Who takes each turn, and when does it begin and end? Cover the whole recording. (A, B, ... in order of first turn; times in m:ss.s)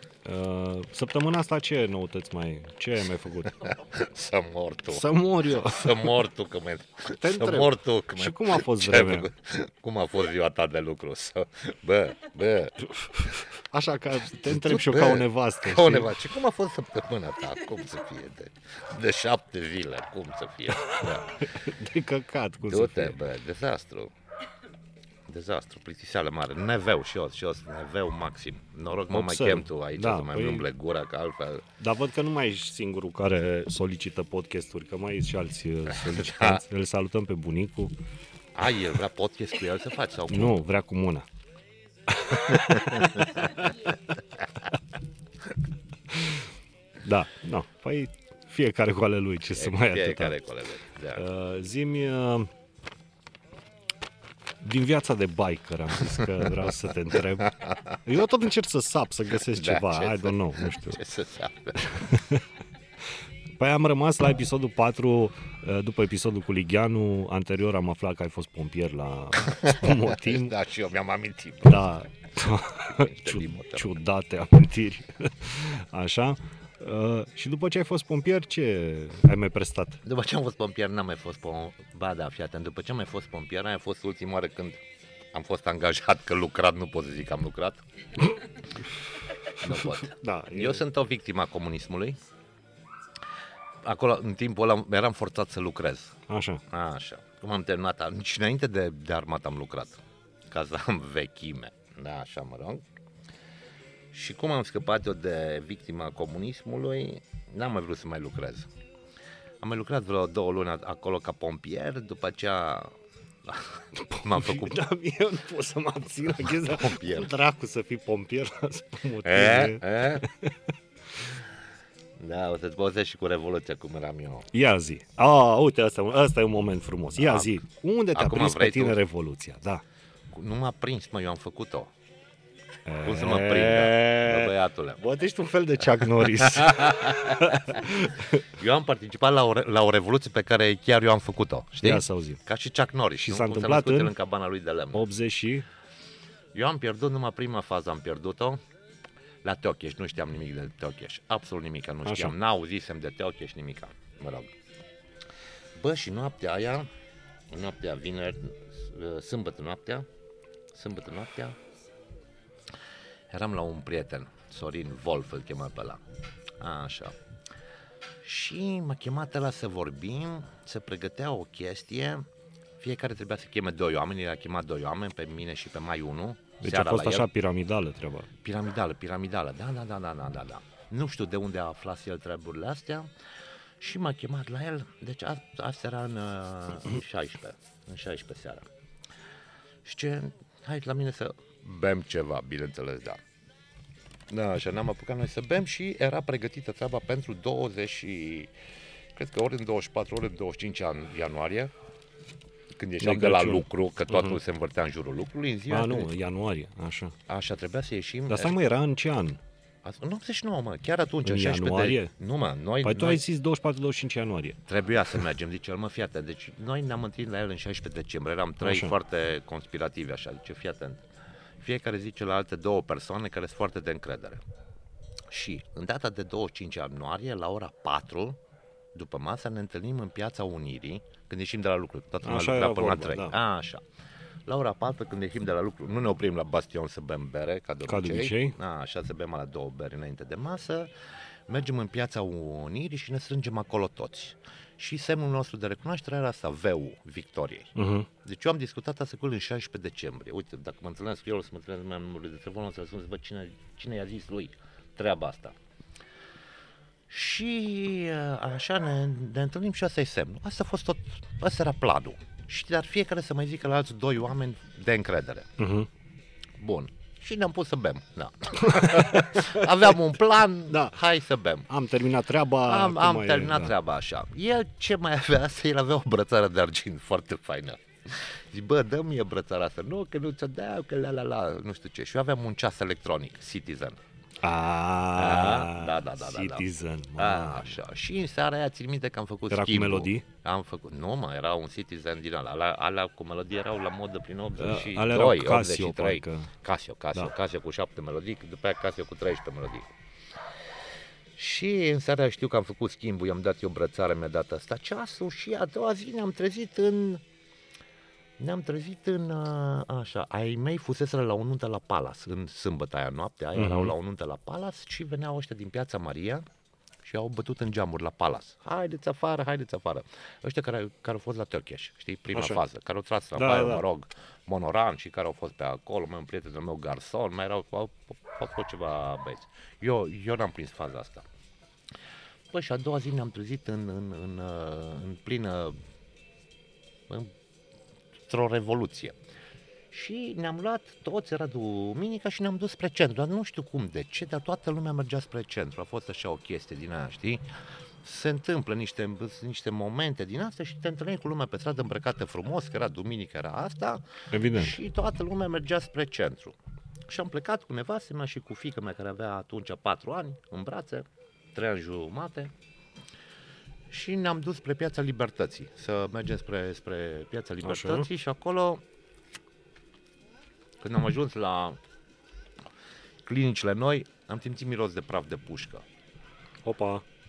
0:00.2-0:03.7 A
0:03.6-0:12.8 B
0:04.9-0:06.1 A
0:07.2-0:09.3 A
0:12.8-0:16.2 A
0:14.4-0:21.4 B
0:20.9-0:23.2 A
0:22.7-0:24.1 B
0:25.3-0:31.6 B
0:29.1-0:30.7 A
0:31.8-0:37.9 A
0:35.9-0:36.6 B
0:38.5-0:40.6 B
0:40.3-0:41.2 A
0:42.2-0:43.5 A
0:42.4-0:43.4 B
0:46.1-0:46.4 A
0:47.0-0:50.3 A
0:49.5-0:51.2 B
0:51.1-0:52.5 A
0:54.6-1:01.0 A
0:57.5-0:57.8 B
0:59.5-1:02.0 B
1:01.8-1:02.4 A
1:03.6-1:10.6 A
1:09.4-1:11.9 B
1:11.6-1:20.0 A
1:12.9-1:14.0 B
1:20.0-1:24.8 B
1:25.3-1:27.8 B
1:29.6-1:30.8 A
1:29.6-1:32.2 B
1:33.8-1:42.8 B
1:36.3-1:36.6 A
1:44.1-1:48.7 B
1:49.6-1:52.9 B
1:53.4-1:54.8 B
1:54.0-2:00.6 A
1:56.3-1:57.3 B
1:59.2-2:00.2 B
2:02.2-2:04.5 B
2:04.5-2:09.8 A
2:07.2-2:07.5 B
2:08.1-2:09.0 B
2:10.3-2:11.9 B
2:12.8-2:18.4 A
2:13.0-2:15.0 B
2:16.0-2:25.0 B
2:21.8-2:22.4 A
2:23.2-2:24.1 A
2:24.9-2:25.6 A
2:26.5-2:28.6 B
2:29.4-2:34.5 B
2:32.0-2:32.3 A
2:35.7-2:36.9 B
2:37.5-2:40.0 B
2:40.7-2:41.6 B
2:43.3-2:46.0 B
2:46.6-2:47.2 B
2:48.2-2:52.3 B
2:52.8-2:57.3 B
2:56.6-2:58.3 A
2:58.4-3:03.1 B
3:03.8-3:08.7 B
3:09.8-3:13.2 B
3:14.3-3:18.5 B
3:19.2-3:21.7 B
3:22.7-3:26.1 B
3:23.0-3:24.4 A
3:25.7-3:27.1 A
3:27.3-3:28.5 B
3:28.3-3:29.4 A
3:29.8-3:33.2 B
3:31.2-3:32.1 A
3:32.8-3:34.6 A
3:34.7-3:41.0 B
3:38.6-3:38.9 A
3:41.6-3:44.4 B
3:45.3-3:48.4 B
3:48.9-3:53.8 B
3:52.2-3:53.4 A
3:54.5-4:00.9 B
3:57.9-3:58.6 A
4:01.5-4:07.7 B
4:07.8-4:08.1 A
4:08.2-4:15.6 B
4:17.1-4:25.5 B
4:25.6-4:25.9 A
4:26.6-4:31.7 B
4:28.6-4:29.6 A
4:30.7-4:31.0 A
4:31.7-4:33.7 A
4:32.6-4:44.0 B
4:44.4-4:47.8 A
4:45.1-4:46.6 B
4:47.2-4:59.9 B
4:49.5-4:50.2 A
4:54.6-4:56.5 A
5:01.4-5:07.2 B
5:08.4-5:16.4 B
5:13.6-5:13.9 A
5:17.0-5:31.2 B
5:22.3-5:22.6 A
5:23.4-5:23.8 A
5:32.5-5:35.8 B
5:38.3-5:39.1 B
5:39.9-5:47.4 B
5:48.0-5:56.6 B
5:54.3-5:54.8 A
5:57.1-6:02.5 B
6:03.9-6:08.8 B
6:07.6-6:08.1 A
6:10.8-6:11.8 B
6:13.2-6:15.8 B
6:16.6-6:17.0 A